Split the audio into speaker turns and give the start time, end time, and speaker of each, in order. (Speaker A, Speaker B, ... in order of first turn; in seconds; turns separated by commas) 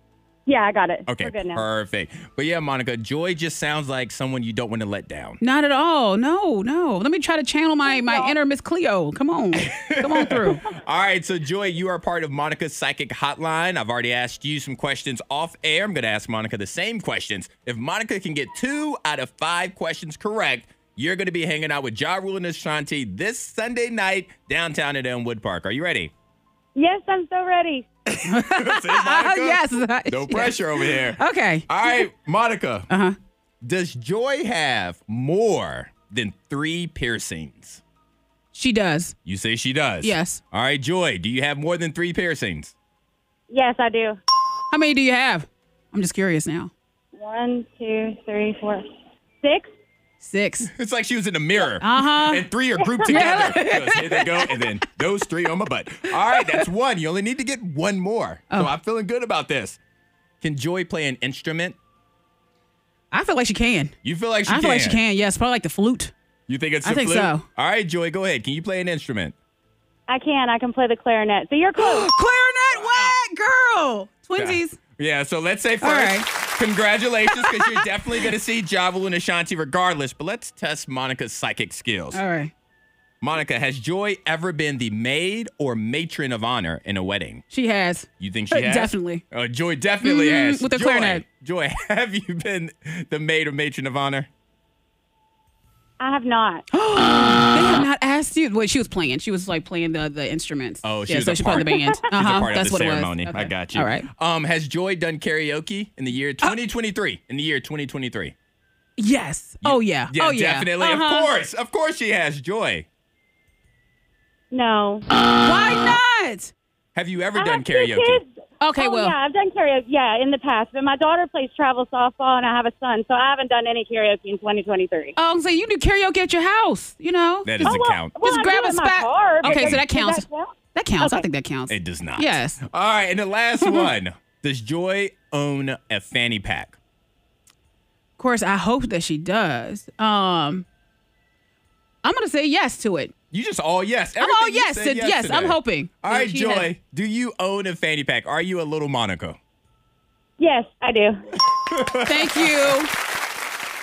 Speaker A: 0.5-1.6, Speaker B: 1.1-5.4, Speaker C: 5.4-10.6, Speaker A: 7.9-8.3, Speaker B: 9.6-26.1, Speaker A: 26.8-27.9, Speaker B: 28.1-32.9, Speaker C: 28.2-32.0, Speaker C: 32.9-33.2, Speaker B: 33.6-37.8, Speaker C: 38.5-39.1, Speaker B: 39.3-42.7, Speaker C: 40.0-40.4, Speaker A: 43.5-44.2, Speaker C: 44.7-46.7, Speaker A: 47.1-48.9, Speaker A: 49.4-49.7, Speaker C: 50.2-50.7, Speaker B: 50.7-59.8, Speaker C: 51.8-52.5, Speaker C: 53.1-54.7, Speaker C: 56.3-56.6, Speaker B: 60.4-61.8, Speaker C: 63.1-63.9, Speaker B: 64.0-65.0, Speaker C: 64.5-66.1, Speaker B: 66.5-69.3, Speaker C: 66.8-67.4, Speaker A: 70.1-72.1, Speaker C: 71.8-74.8, Speaker B: 72.8-73.2, Speaker B: 74.4-82.2, Speaker C: 75.8-76.3, Speaker C: 77.3-77.9, Speaker C: 82.1-82.5, Speaker B: 83.2-87.4, Speaker C: 87.5-89.2, Speaker B: 88.2-94.3, Speaker C: 90.0-91.2, Speaker A: 96.0-96.6, Speaker C: 96.7-104.1, Speaker B: 100.8-108.3, Speaker A: 101.5-101.8, Speaker C: 109.0-111.3, Speaker B: 109.6-112.9, Speaker A: 114.5-115.0, Speaker C: 115.3-116.5, Speaker B: 117.0-118.2, Speaker A: 117.4-125.1, Speaker C: 118.6-119.2, Speaker C: 125.2-132.6, Speaker B: 127.5-128.2, Speaker A: 127.6-131.2, Speaker B: 129.4-129.9, Speaker B: 131.7-136.8, Speaker C: 133.6-133.9, Speaker C: 138.2-140.7, Speaker C: 142.0-143.1, Speaker B: 143.3-149.4, Speaker C: 144.2-146.7, Speaker A: 150.4-151.2, Speaker B: 151.5-152.8, Speaker C: 151.9-152.9